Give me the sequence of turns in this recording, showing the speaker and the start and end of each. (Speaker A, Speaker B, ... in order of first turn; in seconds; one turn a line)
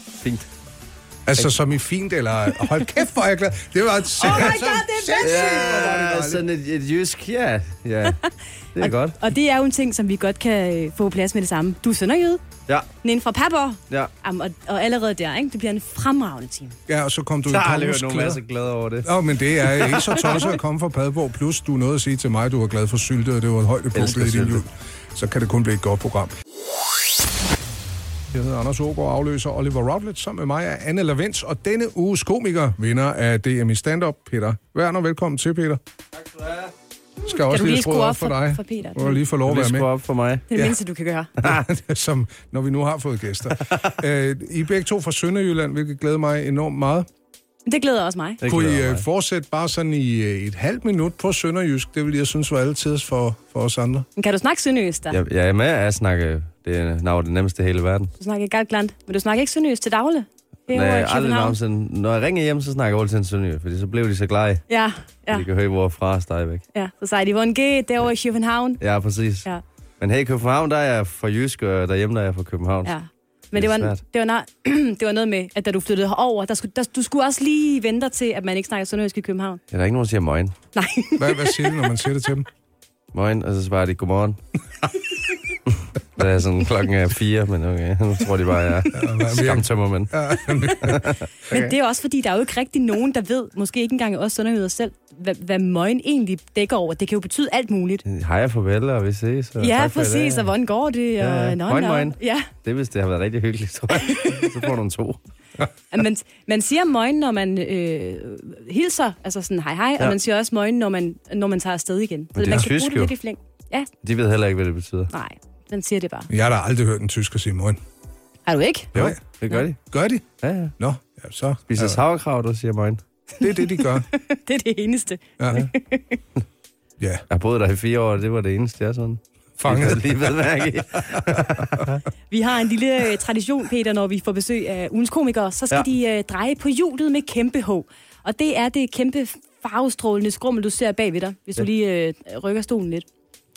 Speaker A: 1.3-6.4
Speaker B: 4.2-5.8
Speaker C: 5.2-8.2
Speaker C: 8.8-9.2
Speaker B: 8.8-12.4
Speaker B: 13.0-16.8
Speaker A: 16.9-18.4
Speaker C: 17.5-19.1
Speaker A: 19.0-26.3
Speaker C: 23.9-24.6
Speaker A: 28.3-35.8
Speaker C: 36.1-36.7
Speaker A: 37.2-39.9
Speaker B: 37.3-39.2
Speaker C: 39.5-40.5
Speaker B: 40.5-41.3
Speaker A: 40.5-40.8
Speaker A: 41.4-47.1
Speaker B: 47.7-48.4
Speaker C: 48.4-49.0
Speaker A: 48.5-54.1
Speaker B: 54.2-55.2
Speaker C: 55.1-58.1
Speaker B: 58.2-61.6
Speaker C: 60.7-64.7
Speaker B: 64.7-65.5
Speaker C: 65.3-66.6
Speaker B: 66.7-68.8
Speaker C: 68.8-69.5
Speaker C: 70.0-72.9
Speaker B: 72.8-79.6
Speaker C: 73.5-74.0
Speaker C: 79.7-80.5
Speaker B: 80.8-81.8
Speaker A: 81.2-82.5
Speaker C: 83.1-84.4
Speaker C: 86.2-91.7
Speaker A: 88.9-91.0
Speaker B: 90.7-98.0
Speaker C: 98.0-100.5
Speaker B: 99.6-102.5
Speaker C: 101.2-105.2
Speaker B: 104.0-104.3
Speaker B: 105.9-113.9
Speaker C: 112.4-113.1
Speaker C: 114.0-115.1
Speaker B: 115.1-116.3
Speaker A: 116.3-117.8
Speaker B: 118.5-118.9
Speaker A: 118.9-119.2
Speaker C: 118.9-119.8
Speaker A: 119.8-122.0
Speaker C: 120.4-120.7
Speaker C: 121.7-123.0
Speaker A: 123.4-124.1
Speaker B: 124.1-126.2
Speaker A: 127.0-127.2
Speaker C: 127.3-132.0
Speaker A: 129.6-130.3
Speaker B: 132.3-143.1